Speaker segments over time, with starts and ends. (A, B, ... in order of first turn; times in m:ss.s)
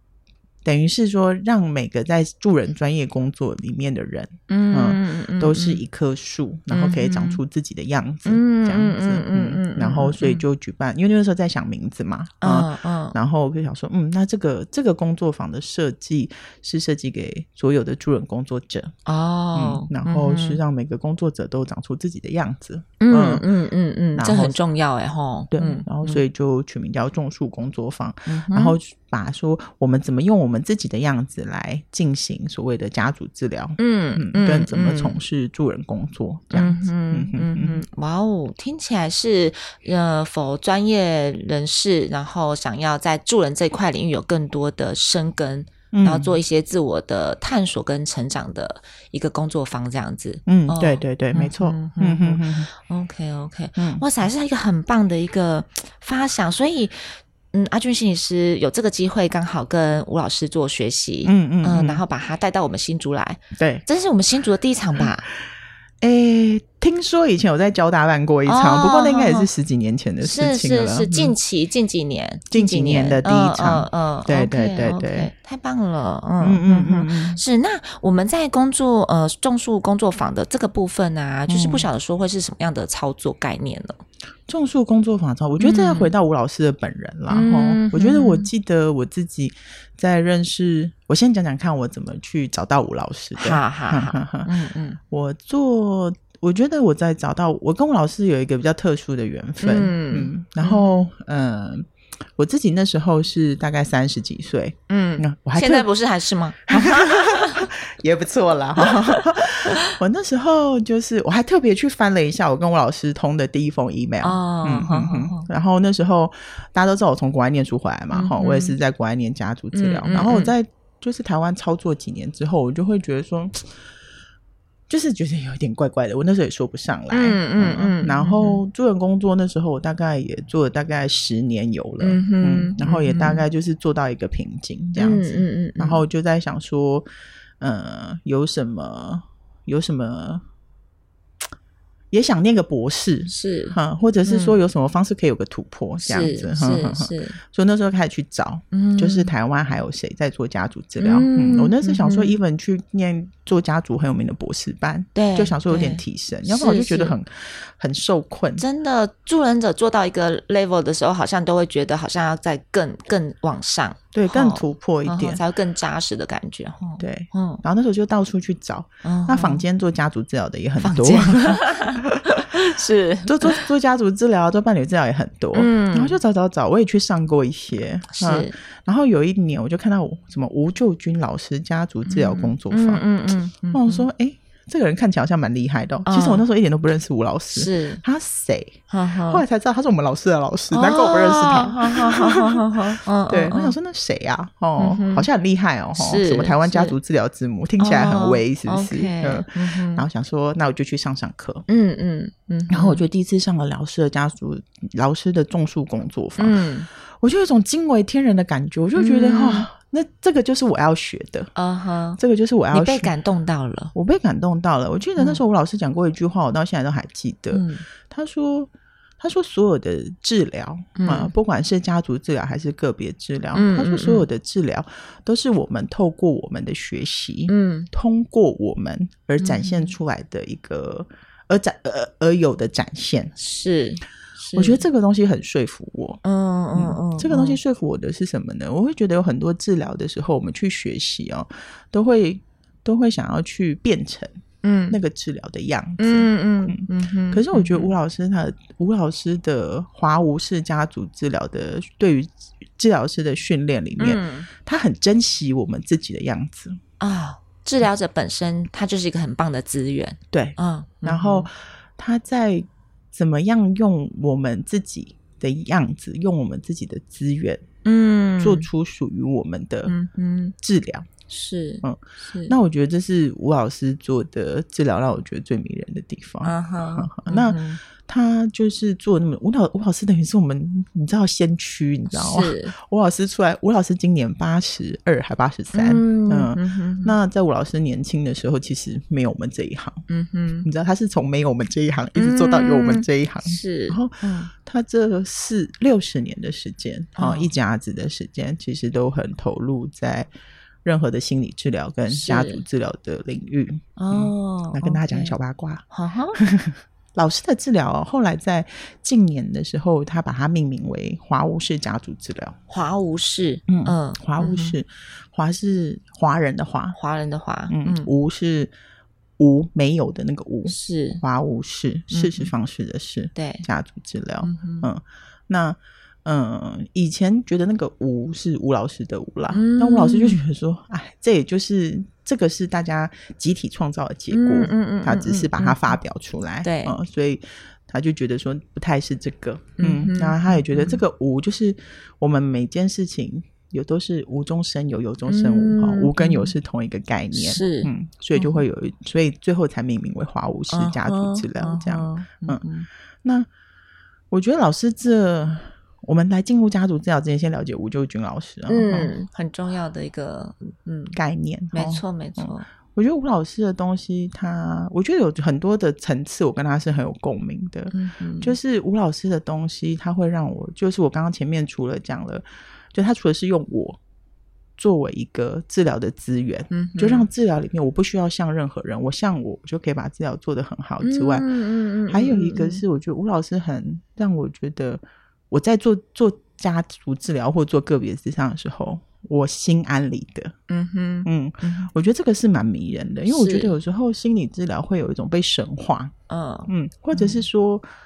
0:00.6-0:19.0 A
0:04.5-0:05.8 B
0:06.7-0:07.4 B
0:08.3-0:10.4 B
0:12.4-0:13.2 B
0:19.1-0:20.6 B
0:19.6-0:23.5 A
0:23.0-0:26.2 B
0:24.2-0:24.6 A
0:25.5-0:37.8 A
0:28.3-0:28.8 B
0:33.8-0:35.2 B
0:36.5-1:05.3 B
0:45.9-0:46.3 A
0:50.5-0:52.7 A
0:53.8-0:54.0 A
1:01.2-1:02.0 A
1:03.6-1:03.8 A
1:06.0-1:11.4 A
1:08.5-1:09.5 B
1:10.2-1:24.0 B
1:12.5-1:15.3 A
1:16.4-1:17.4 A
1:21.5-1:21.9 A
1:24.5-1:34.5 A
1:25.6-1:26.1 B
1:27.3-1:28.5 B
1:33.4-1:35.0 B
1:35.1-1:45.9 A
1:39.6-1:41.1 B
1:44.9-1:47.7 B
1:46.7-2:03.8 A
1:48.8-1:49.8 B
1:54.2-1:55.5 B
1:58.1-1:58.8 B
1:59.7-2:00.5 B
2:04.9-2:17.1 A
2:07.1-2:08.6 B
2:12.0-2:13.4 B
2:15.0-2:16.0 B
2:17.6-2:20.4 A
2:22.1-2:38.6 A
2:23.3-2:24.6 B
2:26.0-2:27.4 B
2:28.7-2:29.3 B
2:31.0-2:32.4 B
2:35.2-2:37.2 B
2:38.6-2:47.6 B
2:44.1-2:45.4 A
2:47.0-2:52.6 A
2:49.0-2:49.6 B
2:50.8-2:53.6 B
2:53.2-3:03.1 A
2:55.5-2:56.2 B
2:58.1-2:58.6 B
3:02.1-3:04.1 B
3:03.7-3:21.7 A
3:06.1-3:06.4 B
3:07.5-3:08.0 B
3:08.9-3:09.4 B
3:10.7-3:13.7 B
3:14.8-3:15.3 B
3:15.9-3:17.0 B
3:17.8-3:20.1 B
3:21.7-3:23.0 B
3:22.7-3:31.5 A
3:26.4-3:26.9 B
3:29.0-3:29.7 B
3:31.6-3:32.2 B
3:32.2-3:33.1 A
3:32.7-3:33.9 B
3:34.0-3:53.3 A
3:37.5-3:37.8 B
3:41.0-3:41.3 B
3:43.6-3:44.3 B
3:47.5-3:47.9 B
3:49.4-3:49.9 B
3:53.4-3:54.8 B
3:54.6-3:56.2 A
3:56.2-3:57.6 B
3:56.8-4:04.3 A
4:04.6-4:05.0 B
4:04.9-4:16.8 A
4:06.0-4:07.9 B
4:14.0-4:14.5 B
4:17.0-4:21.5 B
4:20.3-4:27.7 A
4:27.8-4:28.7 B
4:28.4-4:30.0 A
4:29.9-4:30.5 B
4:30.6-4:31.1 A
4:31.3-4:32.6 B
4:31.8-4:50.0 A
4:36.4-4:37.8 B
4:42.1-4:42.7 B
4:45.7-4:47.2 B
4:50.1-4:50.7 B
4:50.6-5:00.3 A
4:52.2-4:54.5 B
4:57.2-4:57.5 B
5:00.8-5:05.8 A
5:02.1-5:02.6 B
5:04.0-5:05.3 B
5:05.9-5:06.4 B
5:06.4-5:12.6 A
5:12.7-5:14.8 B
5:13.7-5:17.0 A
5:16.9-5:18.1 B
5:17.7-5:18.7 A
5:19.4-5:52.6 A
5:20.7-5:21.2 B
5:22.1-5:22.5 B
5:23.4-5:23.6 B
5:24.4-5:24.9 B
5:29.5-5:30.4 B
5:34.3-5:36.0 B
5:36.6-5:37.0 B
5:39.8-5:41.0 B
5:45.3-5:46.5 B
5:47.3-5:48.6 B
5:50.7-5:52.9 B
5:54.3-5:59.1 A
5:58.7-6:01.2 B
6:01.1-6:14.0 A
6:01.7-6:02.7 B
6:07.9-6:08.6 B
6:14.8-6:21.5 A
6:16.7-6:17.3 B
6:21.0-6:22.8 B
6:22.1-6:30.6 A
6:30.7-6:31.9 B
6:31.2-6:36.1 A
6:33.3-6:33.7 B
6:36.3-6:37.4 B
6:36.7-6:37.9 A